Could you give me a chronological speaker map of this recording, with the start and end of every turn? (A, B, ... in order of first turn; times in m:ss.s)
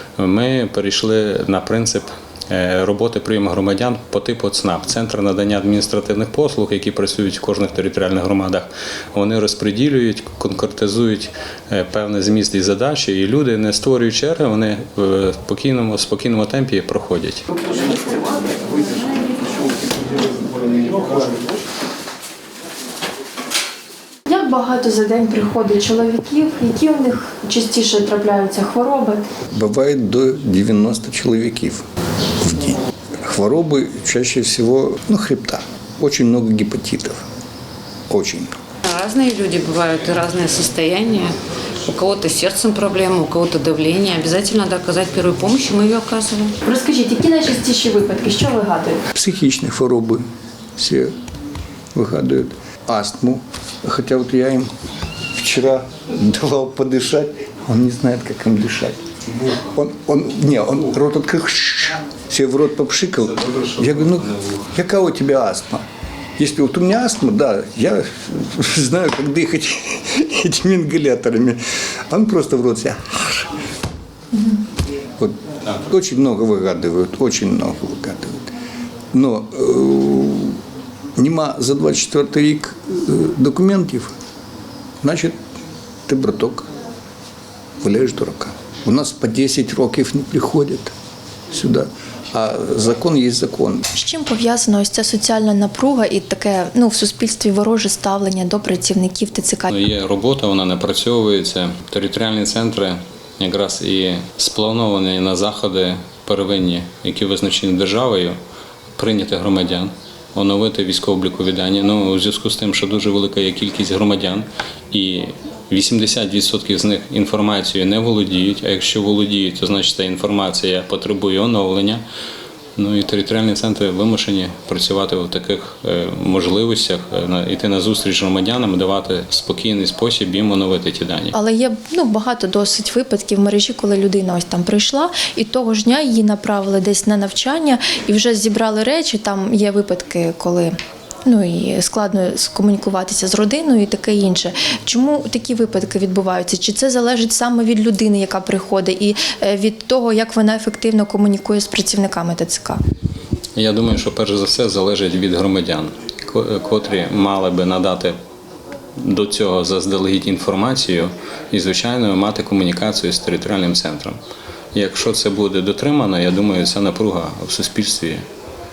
0:00.2-0:17.4 A
0:24.3-0:29.2 B
0:29.5-0:31.8 C
0:32.4-0:37.2 C
0:38.1-0:38.5 C
0:38.9-0:41.3 D
0:41.9-0:46.5 D
0:46.6-0:49.0 B
0:49.1-0:50.2 C
0:50.8-0:51.1 C
0:52.0-0:54.7 C
0:55.4-0:59.0 C
0:59.6-1:05.8 C
1:06.4-1:11.6 C
1:12.1-1:13.5 C
1:15.2-1:18.5 C
1:19.1-1:20.6 C
1:21.2-1:24.1 C
1:25.0-1:25.4 C
1:26.1-1:26.7 C
1:27.8-1:30.9 C
1:31.5-1:33.8 C
1:33.9-1:39.7 B
1:39.7-1:48.4 A
1:49.0-2:02.0 A
2:02.8-2:11.3 A
2:11.3-2:20.7 B
2:21.3-2:32.8 B
2:33.6-2:38.2 A
2:39.0-2:44.2 A
2:44.7-2:48.2 A